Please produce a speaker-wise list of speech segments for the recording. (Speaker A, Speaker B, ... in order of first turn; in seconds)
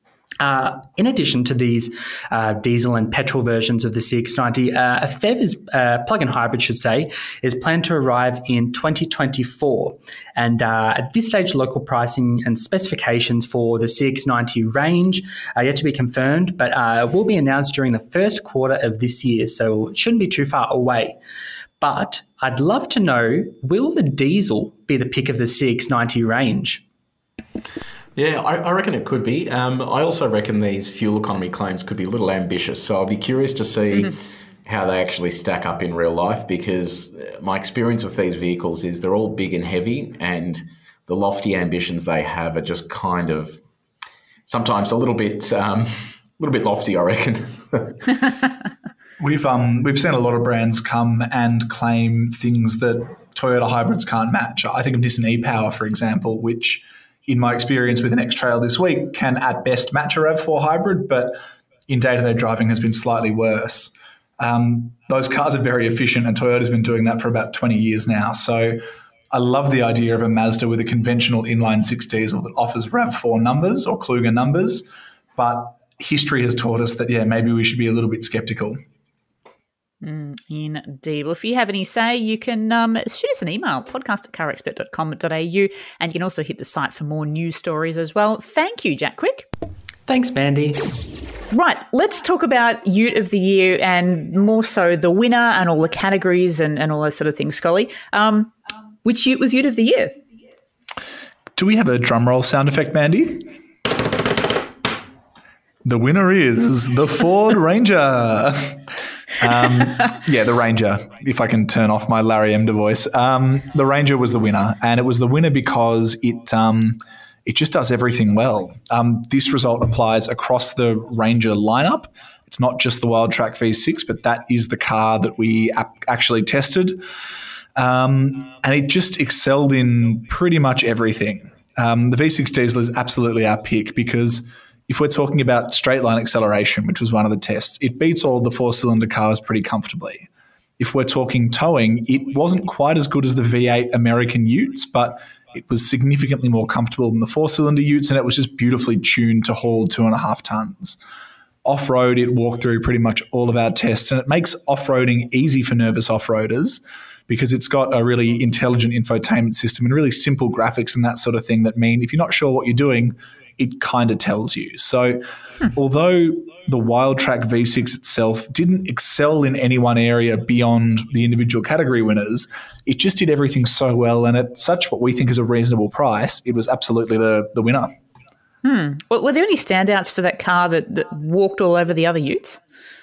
Speaker A: 0.4-21.2, 21.8-26.8, 90.1-90.9
Speaker B: 28.1-43.6, 44.5-48.2
Speaker C: 49.2-74.8, 75.4-78.8, 101.5-103.5, 105.8-108.8, 109.4-127.0, 127.8-140.3, 140.8-151.0, 151.6-177.9
Speaker D: 80.0-89.5, 91.5-98.5, 99.0-100.1, 178.6-182.6